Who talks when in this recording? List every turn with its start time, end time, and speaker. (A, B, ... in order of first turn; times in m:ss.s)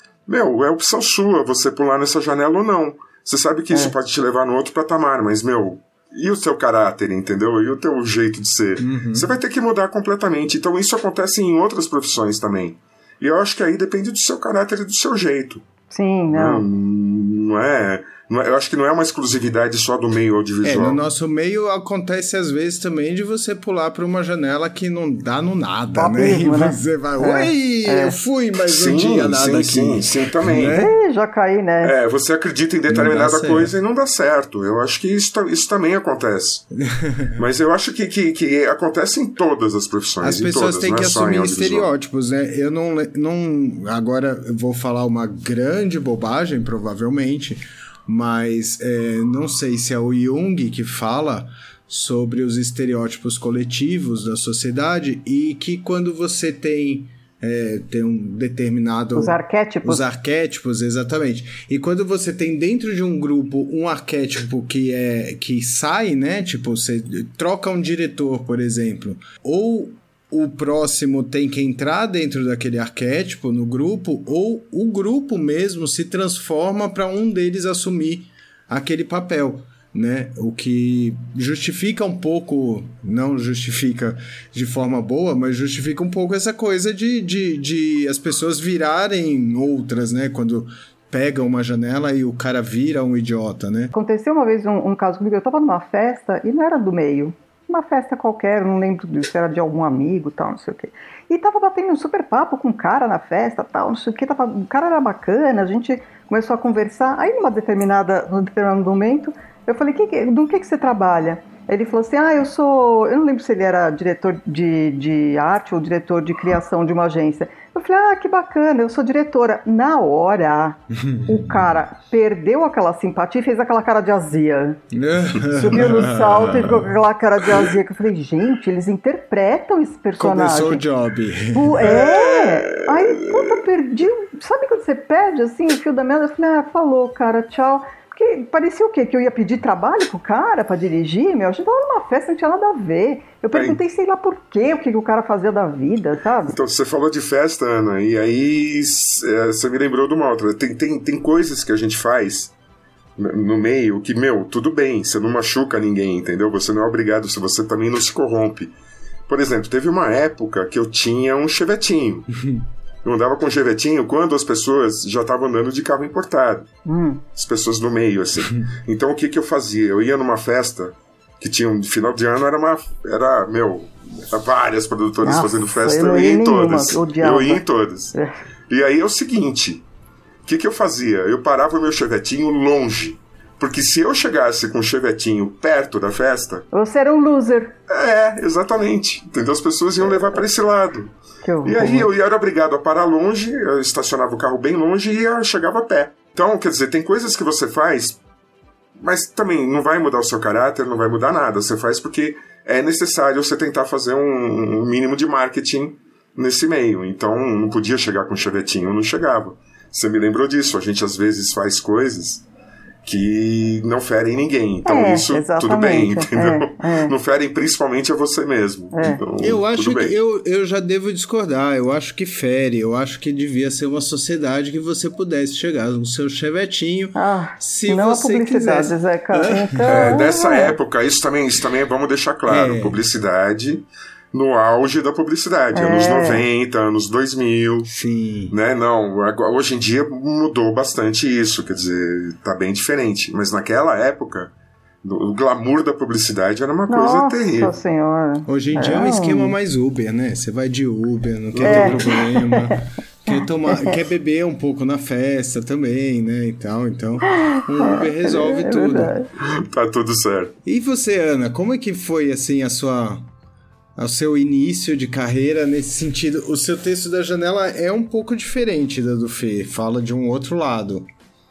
0:00.3-0:15.6 A
0:08.8-0:09.3 B
0:15.9-0:16.6 C
0:16.3-0:21.0 A
0:20.6-0:30.9 B
0:26.0-0:28.2 C
0:28.6-0:30.8 A
0:30.8-0:31.9 C
0:31.8-0:36.6 A
0:32.9-0:33.7 B
0:36.8-0:37.4 B
0:37.3-0:41.9 A
0:40.2-1:33.9 B
0:59.2-1:00.0 C
1:33.9-2:04.8 C
2:00.9-2:01.7 B
2:04.9-2:06.9 B
2:05.5-2:10.8 C
2:10.2-2:12.0 B
2:11.5-2:26.5 C
2:11.8-2:12.9 A
2:23.5-2:23.8 A
2:26.5-2:32.5 A
2:33.2-2:38.7 A
2:39.3-2:42.3 A
2:43.0-2:46.7 A
2:46.8-2:47.2 C
2:47.3-2:58.2 A
2:55.2-2:57.6 C
2:58.7-2:59.8 A
3:00.5-3:06.7 A
3:06.7-3:07.8 C
3:07.9-3:18.2 A
3:11.4-3:12.1 C
3:19.0-3:32.4 A
3:33.0-3:40.1 A
3:34.8-3:37.1 C
3:38.9-3:39.2 C
3:39.4-3:50.1 B
3:47.2-3:50.8 C
3:49.9-3:57.9 A
3:52.5-3:53.0 B
3:55.7-3:56.4 C
3:57.9-3:58.6 B
3:58.5-4:07.8 A
4:06.9-4:09.6 C
4:08.5-4:19.2 B
4:11.5-4:12.2 A
4:11.6-4:12.8 C
4:13.3-4:14.0 C
4:17.5-4:19.3 C
4:19.4-4:20.6 A
4:20.6-4:23.2 B
4:24.0-4:31.1 B